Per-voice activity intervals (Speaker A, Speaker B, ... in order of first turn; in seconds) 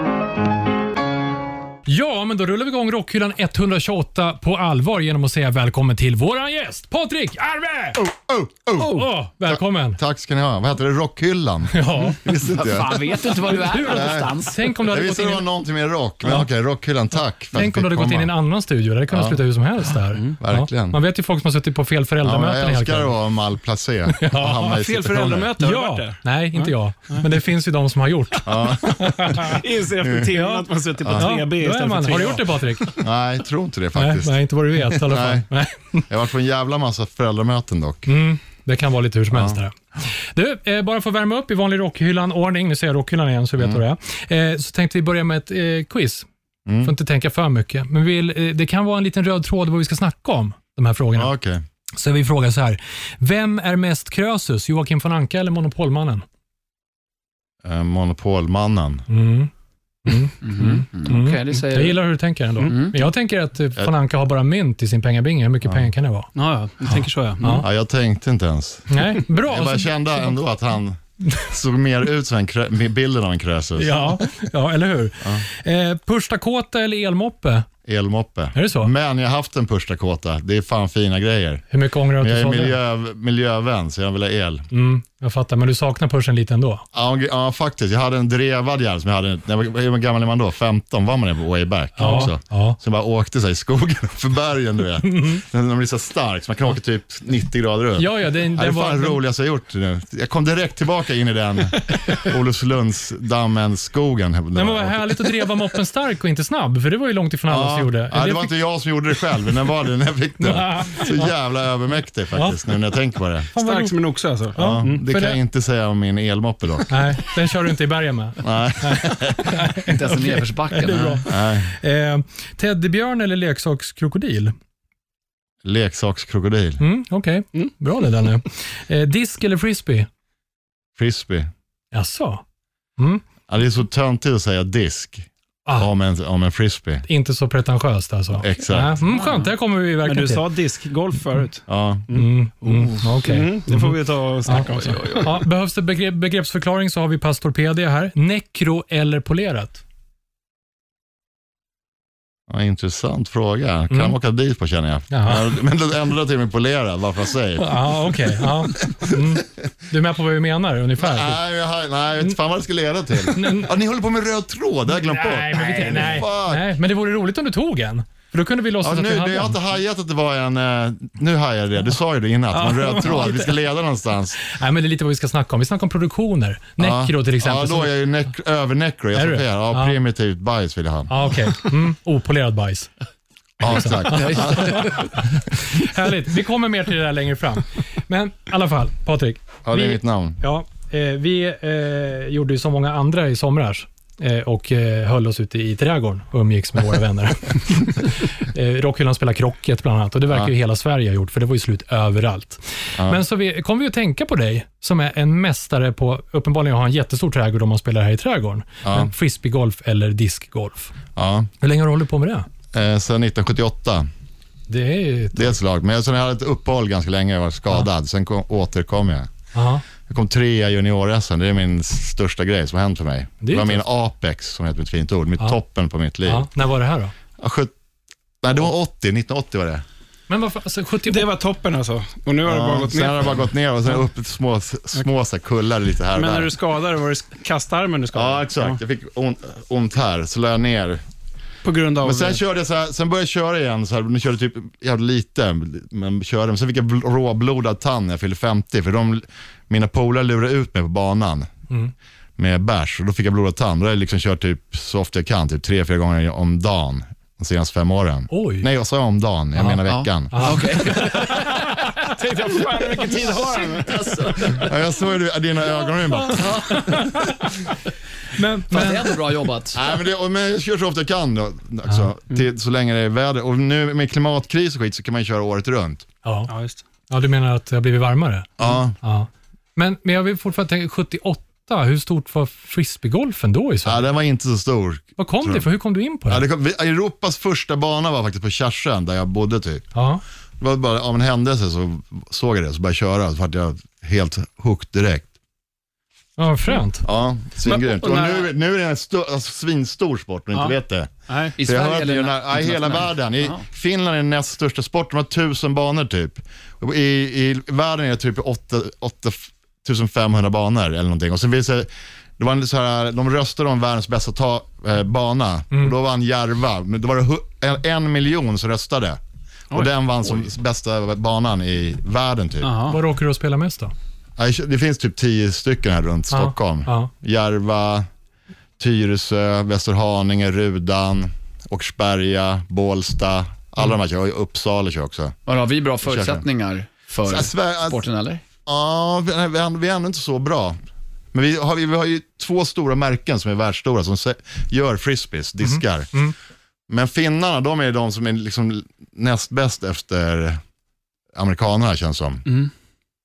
Speaker A: 1.9-8.0, 8.8-10.0, 11.7-12.2, 13.5-15.4, 17.5-23.1, 24.1-24.8, 25.6-29.6, 30.3-33.0, 34.0-36.1, 38.1-46.3, 46.8-51.3, 52.0-56.2, 59.1-59.5, 60.0-66.3, 66.8-67.7, 68.9-70.3, 73.8-77.7, 78.5-78.9, 81.7-82.8, 84.7-86.9, 92.0-92.8, 95.0-95.4, 98.0-99.2, 104.5-108.5, 110.4-111.3, 112.3-112.7, 113.5-114.0, 114.5-115.4, 116.9-124.5, 126.8-130.1, 131.9-132.4, 133.0-133.2, 137.1-140.5, 142.1-149.8, 153.9-154.2, 155.1-155.6, 157.6-161.4, 163.3-163.7, 164.9-169.6, 172.5-173.6, 174.4-178.0, 179.2-180.0, 181.1-182.9, 183.7-211.0, 211.6-212.5, 214.7-215.6, 219.5-219.8, 223.4-223.8, 226.2-227.1, 230.3-231.3, 258.3-258.7, 260.3-262.0, 266.1-267.5, 268.3-269.2, 276.2-276.5, 277.1-284.0, 285.2-286.4, 289.9-290.2, 296.4-297.1, 322.9-323.9, 326.3-327.1, 345.6-346.3
Speaker B: 8.0-13.3, 13.9-18.3, 19.1-19.4, 20.4-21.0, 22.2-25.5, 28.4-29.4, 30.0-30.3, 31.0-31.3, 33.0-35.5, 36.1-38.1, 39.3-39.6, 46.7-46.9, 51.2-51.6, 57.6-59.0, 67.6-74.2, 77.8-81.6, 82.2-84.7, 86.9-105.2, 107.5-113.5, 114.6-116.9, 118.4-119.6, 121.3-121.7, 125.6-126.8, 131.0-131.5, 133.5-137.1, 138.4-139.0, 141.7-142.1, 142.7-143.0, 152.5-157.9, 158.7-159.4, 161.0-166.7, 168.8-174.4, 176.8-181.1, 183.6-185.0, 189.7-190.4, 203.0-203.2, 208.8-209.1, 211.2-211.5, 212.7-214.1, 215.3-219.3, 220.1-226.5, 227.4-227.7, 228.4-229.8, 232.4-236.5, 238.1-241.0, 242.0-251.5, 252.4-260.9, 263.0-267.0, 269.7-276.1, 278.6-279.0, 283.9-285.7, 286.3-289.9, 290.6-295.3, 297.0-319.2, 319.7-322.9, 324.4-328.1, 328.8-335.4, 336.0-336.4, 337.3-338.0, 338.7-340.8, 341.3-346.2, 346.9-350.6, 351.3-352.4
Speaker C: 12.4-14.7, 60.4-62.0, 62.6-63.0, 119.9-121.2, 139.1-139.5, 144.6-145.3, 184.1-185.1, 259.9-261.7, 268.7-269.8, 301.6-303.6, 335.5-338.4
Speaker D: 24.7-27.2, 29.3-32.9, 66.3-67.6, 113.6-115.0, 140.1-142.3, 143.2-145.4, 231.1-233.4, 236.1-238.8, 241.6-242.4, 261.1-264.7, 276.5-276.8, 297.6-298.5, 301.3-301.6, 322.6-323.0